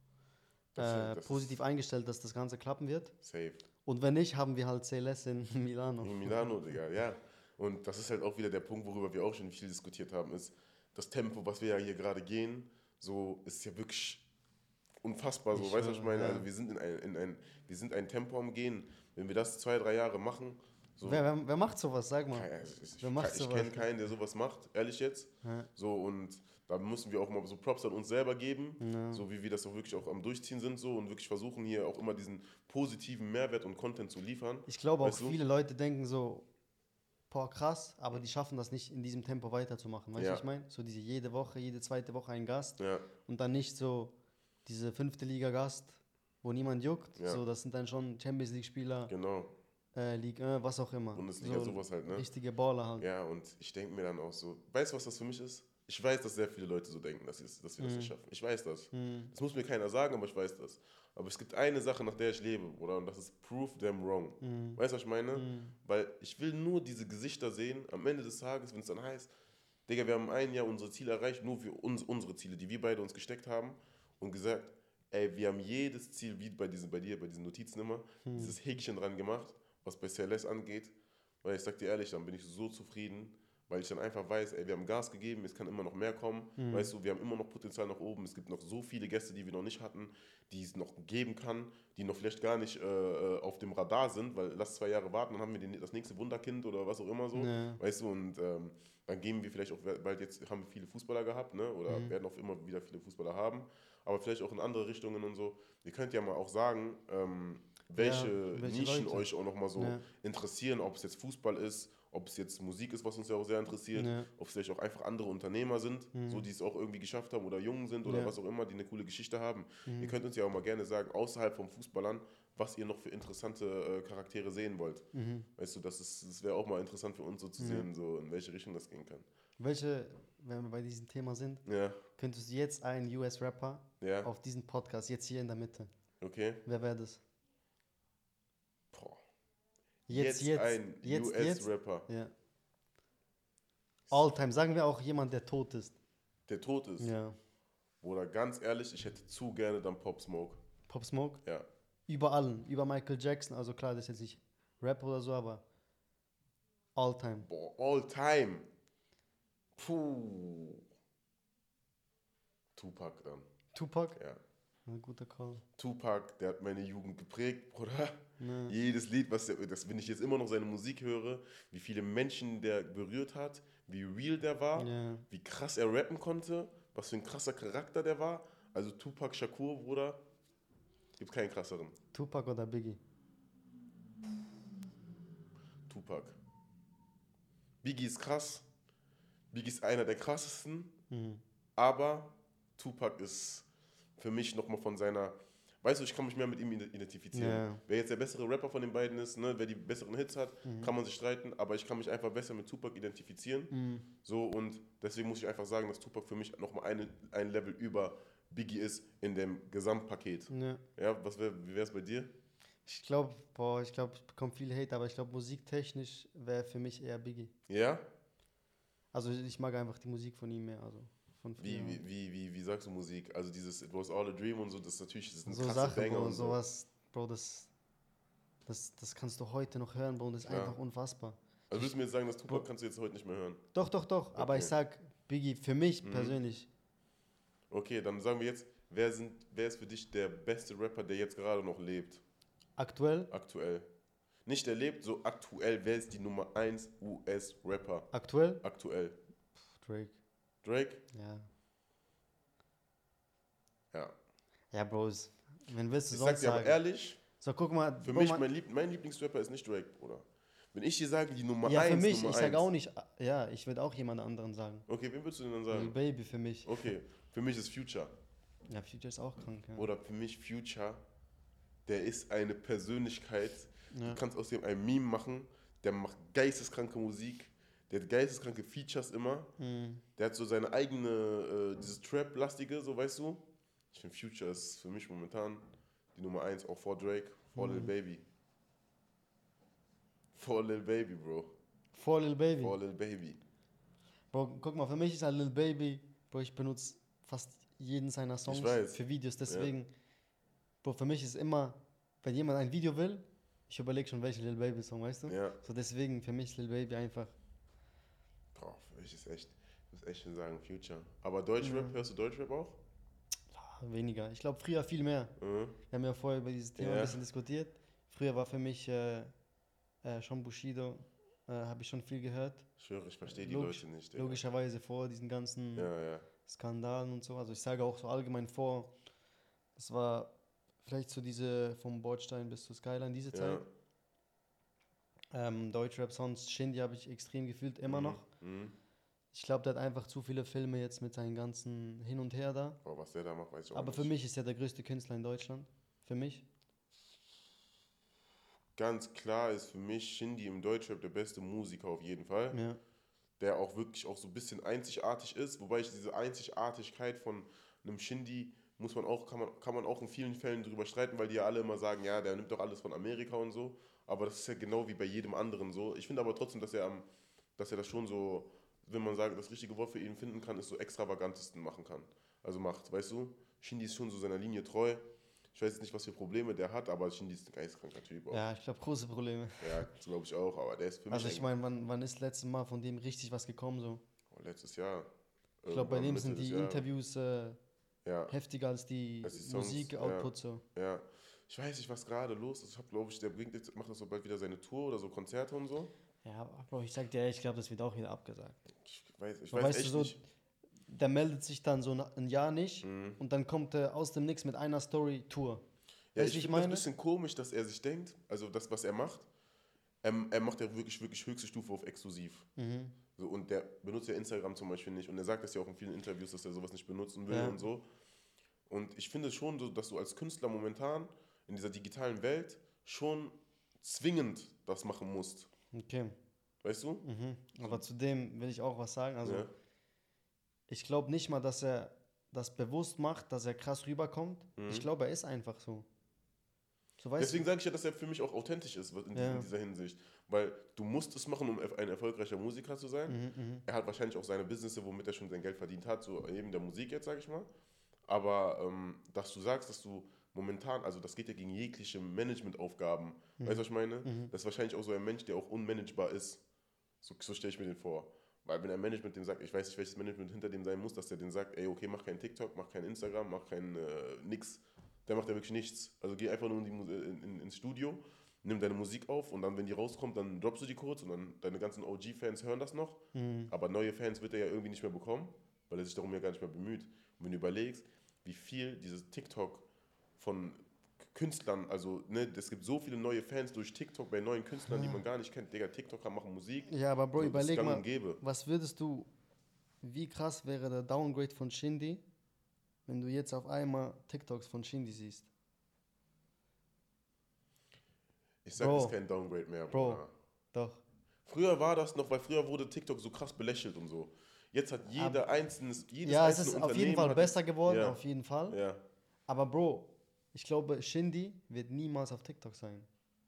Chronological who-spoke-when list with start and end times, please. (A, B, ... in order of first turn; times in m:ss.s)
0:00.8-0:01.6 A
0:00.8-0:03.1 B
0:03.2-0:03.6 A
0:03.9-0:06.5 B
0:06.0-0:14.2 A
0:15.0-0:21.2 A
0:15.5-0:16.5 B
0:21.0-0:22.5 B
0:22.3-0:35.4 A
0:23.0-0:23.9 B
0:25.4-0:25.7 B
0:28.8-0:29.2 B
0:34.7-0:36.5 B
0:37.3-0:44.1 B
0:40.2-0:40.4 A
0:42.8-0:43.1 A
0:44.6-0:49.1 B
0:47.2-0:47.4 A
0:49.1-0:49.5 A
0:49.9-0:53.1 B
0:51.1-0:52.2 A
0:53.0-1:09.3 A
0:57.8-0:58.1 B
0:58.9-0:59.3 B
1:04.4-1:04.8 B
1:05.3-1:05.8 B
1:09.9-2:09.3 A
1:18.3-1:18.6 B
1:26.6-1:26.9 B
1:37.4-1:37.8 B
1:41.9-1:42.1 B
1:48.0-1:50.0 B
1:54.0-1:54.3 B
1:56.2-1:56.5 B
1:58.0-1:58.3 B
1:59.9-2:00.2 B
2:05.1-2:05.5 B
2:07.6-2:07.9 B
2:09.6-2:11.6 B
2:11.7-2:12.0 A
2:12.2-2:15.9 B
2:14.0-2:14.3 A
2:16.2-2:16.6 A
2:16.7-2:17.2 B
2:18.9-2:19.2 A
2:20.1-2:22.3 B
2:20.1-2:22.1 A
2:24.1-2:26.0 B
2:26.5-2:27.1 A
2:27.0-2:27.4 B
2:28.0-2:30.6 A
2:30.9-2:31.4 B
2:32.1-2:35.6 B
2:37.0-2:37.5 B
2:37.4-2:38.7 A
2:39.8-2:40.8 A
2:42.8-2:43.5 A
2:43.7-2:44.2 B
2:44.9-2:45.6 B
2:45.8-3:00.2 A
2:48.4-2:48.7 B
2:54.8-2:55.2 B
3:01.2-3:02.0 A
3:02.1-3:03.0 B
3:05.9-3:06.4 A
3:07.8-3:08.7 A
3:09.5-3:10.9 A
3:11.1-3:11.4 B
3:11.8-3:32.3 A
3:17.3-3:17.8 B
3:20.6-3:20.9 B
3:23.7-3:24.1 B
3:30.5-3:30.8 B
3:32.9-3:37.5 B
3:37.7-3:38.0 A
3:39.1-3:42.0 B
3:41.6-3:46.6 A
3:45.5-3:47.7 B
3:48.7-3:51.9 B
3:50.5-3:50.8 A
3:51.7-3:53.6 A
3:53.7-3:56.7 B
3:54.4-3:54.7 A
3:56.0-3:56.4 A
3:57.7-4:02.2 A
4:02.8-4:03.3 B
4:03.3-4:03.9 A
4:04.5-4:08.1 A
4:08.1-4:08.6 B
4:08.6-4:09.2 A
4:09.7-4:10.2 B
4:10.6-4:11.0 A
4:11.1-4:11.5 B
4:14.7-4:16.8 B
4:16.1-4:17.2 A
4:17.4-4:18.4 B
4:18.0-4:22.6 A
4:21.6-4:24.9 B
4:24.9-4:26.0 A
4:25.7-4:26.9 B
4:26.6-4:28.1 A
4:28.7-4:29.9 B
4:29.8-4:31.0 A
4:31.9-4:39.5 A
4:33.9-4:34.2 B
4:39.6-4:40.0 B
4:40.2-4:45.6 A
4:46.2-4:48.2 A
4:47.6-4:47.9 B
4:50.4-4:51.5 A
4:51.9-4:52.8 B
4:52.6-4:53.4 A
4:54.3-4:59.9 B
4:58.5-4:59.7 A
5:00.8-5:07.3 B
5:05.3-5:05.6 A
5:08.6-5:12.8 A
5:11.6-5:12.0 B
5:13.5-5:15.3 B
5:15.4-5:15.8 A
5:15.9-5:19.3 B
5:16.8-5:17.2 A
5:20.0-5:22.6 B
5:22.8-5:24.4 A
5:23.3-5:25.9 B
5:25.8-5:26.3 A
5:26.5-5:28.9 B
5:29.8-5:30.3 B
5:30.8-5:33.6 B
5:33.3-5:33.7 A
5:35.3-5:38.2 B
5:37.9-5:38.8 A
5:39.3-5:42.8 B
5:42.8-5:44.1 A
5:43.7-5:46.4 B
5:48.8-5:52.6 A
5:52.5-5:52.8 B
5:53.4-6:07.0 A
6:07.6-6:18.4 A
6:18.3-6:19.9 B
6:19.6-6:21.5 A
6:21.1-6:24.0 B
6:24.3-6:25.1 A
6:25.6-6:26.9 A
6:25.7-6:27.6 B
6:28.0-6:28.4 A
6:28.3-6:30.6 B
6:29.2-6:35.9 A
6:36.2-6:38.6 B
6:38.7-6:40.2 A
6:39.5-6:40.2 B
6:40.9-6:45.6 B
6:42.8-6:43.2 A
6:46.1-6:49.3 A
6:46.2-6:46.8 B
6:50.0-6:52.5 A
6:52.6-6:53.0 B
6:53.2-6:57.8 A
6:57.3-6:57.6 B
6:58.7-7:05.5 A
7:05.7-7:06.2 B
7:06.6-7:07.0 A
7:07.0-7:09.5 B
7:09.2-7:09.5 A
7:10.7-7:15.9 B
7:14.6-7:14.9 A
7:17.0-7:17.5 B
7:17.2-7:27.5 A
7:19.2-7:19.5 B
7:23.1-7:23.6 B
7:28.1-7:36.4 A
7:33.4-7:34.3 B
7:37.0-7:59.7 A
7:53.1-7:53.5 B
8:00.2-8:08.2 A
8:04.7-8:05.0 B
8:06.7-8:09.1 B
8:09.8-8:12.0 B
8:12.9-8:15.3 B
8:18.4-8:20.1 A
8:18.6-8:19.0 B
8:19.7-8:20.0 B
8:20.5-8:20.8 B
8:21.3-8:28.0 A
8:25.0-8:25.2 B
8:26.0-8:28.6 B
8:28.5-8:28.8 A
8:29.3-8:32.9 B